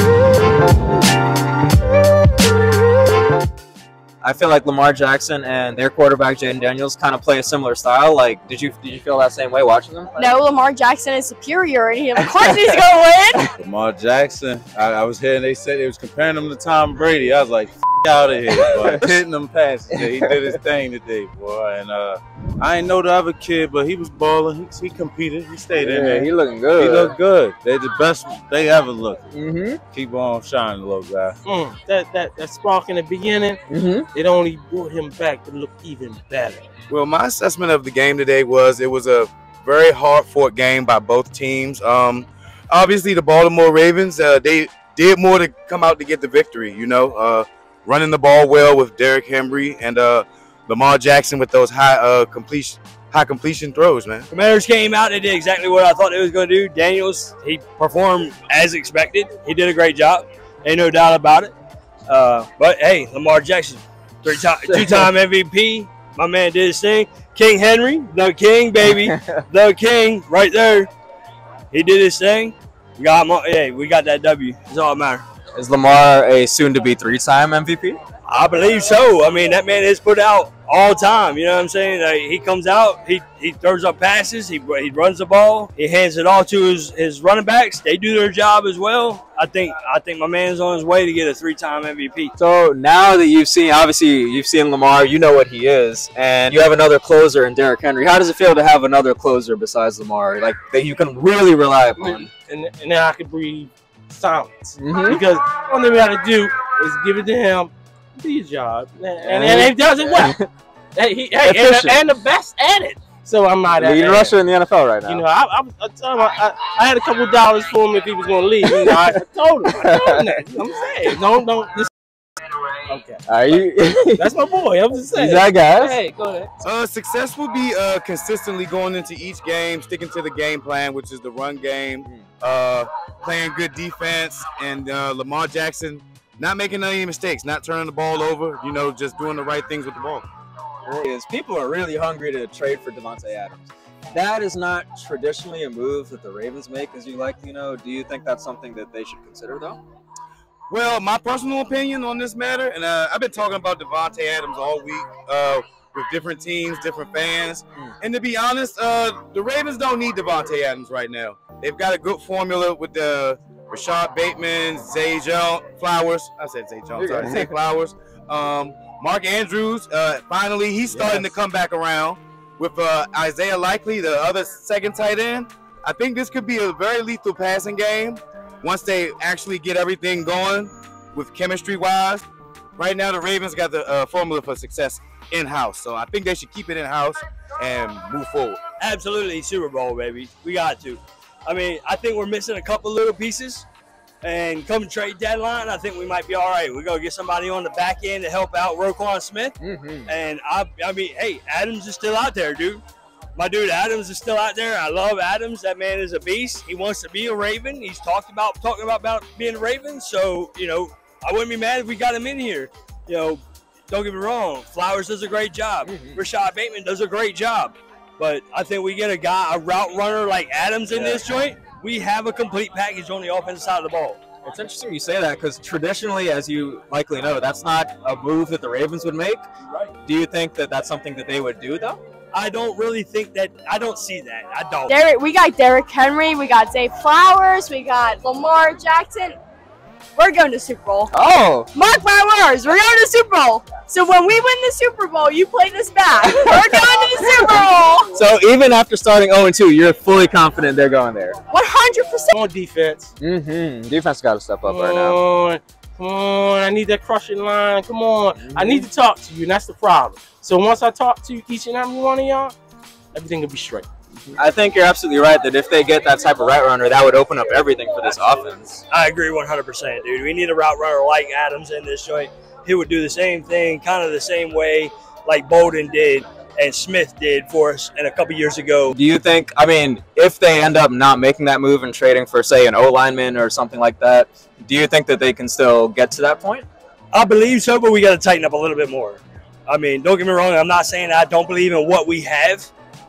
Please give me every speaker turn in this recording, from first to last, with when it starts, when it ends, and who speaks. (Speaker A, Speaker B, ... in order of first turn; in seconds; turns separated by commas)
Speaker A: 4.2-10.3, Speaker B: 10.2-13.5, Speaker C: 13.6-29.3, Speaker A: 18.5-19.1, Speaker A: 19.9-20.3, Speaker A: 25.8-27.1, Speaker A: 29.3-29.8, Speaker C: 29.9-31.4, Speaker D: 31.4-33.6, Speaker A: 33.7-34.1, Speaker D: 34.1-36.6, Speaker E: 36.9-54.3, Speaker F: 54.3-61.5, Speaker F: 62.1-70.9, Speaker A: 64.7-65.0, Speaker F: 71.7-75.2, Speaker A: 75.6-78.0, Speaker F: 78.3-92.3, Speaker A: 92.4-102.3, Speaker D: 102.0-110.4, Speaker A: 104.8-105.2, Speaker A: 109.2-110.5, Speaker D: 111.0-114.4, Speaker A: 111.4-112.0, Speaker A: 113.7-115.2, Speaker D: 115.1-121.9, Speaker A: 118.6-119.2, Speaker A: 119.7-120.3, Speaker D: 122.9-123.2, Speaker A: 123.3-124.3, Speaker D: 124.2-126.5, Speaker A: 125.1-126.0, Speaker E: 126.6-140.3, Speaker A: 140.9-149.8, Speaker E: 150.7-182.2, Speaker A: 167.0-167.5, Speaker A: 170.9-171.3, Speaker E: 182.8-188.6, Speaker F: 188.8-193.7, Speaker F: 194.2-202.8, Speaker A: 199.6-200.1, Speaker F: 203.4-224.2, Speaker A: 215.9-216.2, Speaker A: 220.9-221.2, Speaker A: 224.4-229.4, Speaker A: 230.0-232.0, Speaker F: 232.3-235.0, Speaker B: 234.9-239.4, Speaker B: 240.2-241.1, Speaker A: 241.1-241.7, Speaker B: 241.7-248.2, Speaker A: 246.2-251.4, Speaker B: 251.5-252.3, Speaker D: 252.3-253.1, Speaker A: 253.2-255.2, Speaker D: 254.6-262.6, Speaker A: 258.4-258.9, Speaker D: 263.1-263.9, Speaker A: 264.4-268.8, Speaker F: 268.9-278.9, Speaker A: 278.9-286.7, Speaker F: 287.1-292.7